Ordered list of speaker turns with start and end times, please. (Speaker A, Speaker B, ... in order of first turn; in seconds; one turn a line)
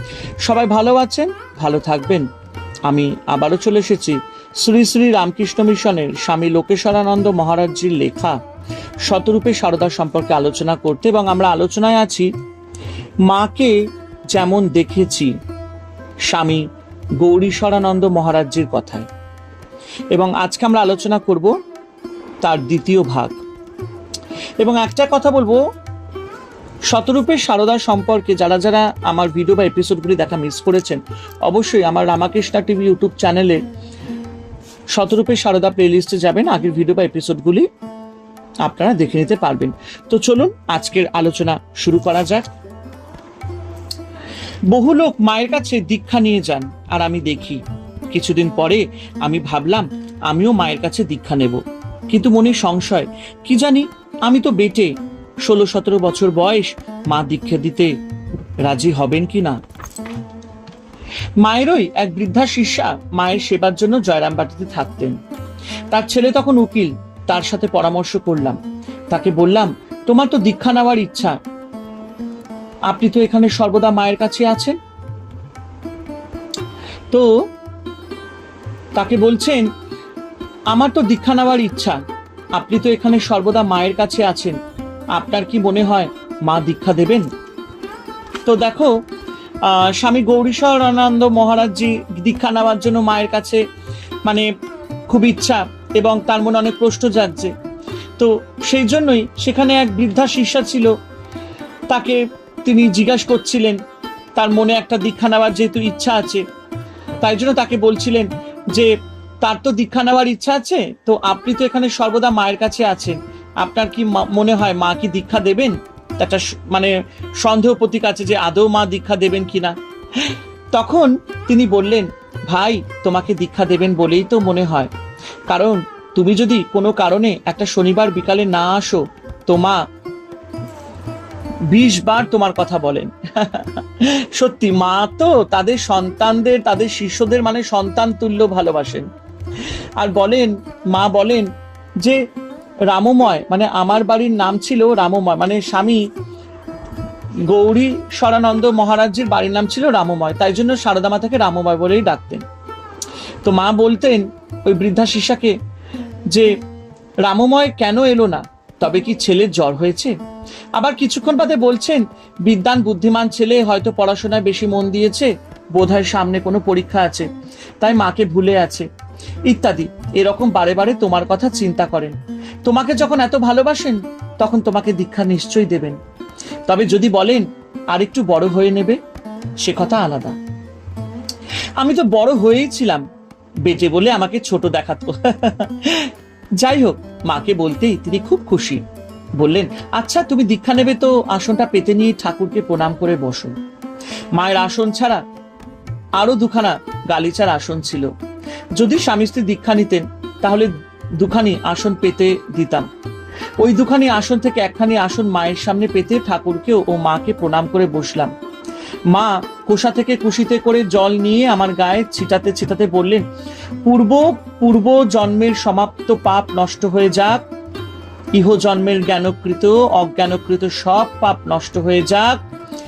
Speaker A: 0.4-2.3
Speaker A: 2.9-8.4
Speaker A: 9.0-12.3
Speaker A: 13.2-13.8
Speaker A: 14.3-15.3
Speaker A: 16.3-16.7
Speaker A: 17.2-19.1
Speaker A: 20.1-21.5
Speaker A: 22.4-23.4
Speaker A: 24.6-25.6
Speaker A: 26.9-33.6
Speaker A: 34.9-37.7
Speaker A: 38.6-42.5
Speaker A: 44.7-54.9
Speaker A: 55.4-57.9
Speaker A: 58.6-59.6
Speaker A: 61.4-65.2
Speaker A: 65.9-68.6
Speaker A: 69.1-71.4
Speaker A: 72.9-74.8
Speaker A: 79.0-79.7
Speaker A: 80.7-82.0
Speaker A: 82.5-84.6
Speaker A: 85.1-87.3
Speaker A: 88.5-88.9
Speaker A: 89.6-93.6
Speaker A: 95.1-97.5
Speaker A: 98.2-100.9
Speaker A: 101.9-103.8
Speaker A: 104.4-106.4
Speaker A: 107.2-124.9
Speaker A: 125.5-129.8
Speaker A: 131.7-139.1
Speaker A: 140.0-142.2
Speaker A: 142.9-146.0
Speaker A: 147.5-152.4
Speaker A: 153.4-155.6
Speaker A: 157.3-160.2
Speaker A: 160.8-167.3
Speaker A: 167.8-168.9
Speaker A: 169.5-176.0
Speaker A: 176.7-179.0
Speaker A: 179.6-180.4
Speaker A: 181.8-183.0
Speaker A: 183.7-188.8
Speaker A: 189.4-193.6
Speaker A: 194.3-195.2
Speaker A: 196.2-198.1
Speaker A: 198.8-202.9
Speaker A: 203.6-208.3
Speaker A: 209.1-213.2
Speaker A: 213.8-217.4
Speaker A: 218.3-222.4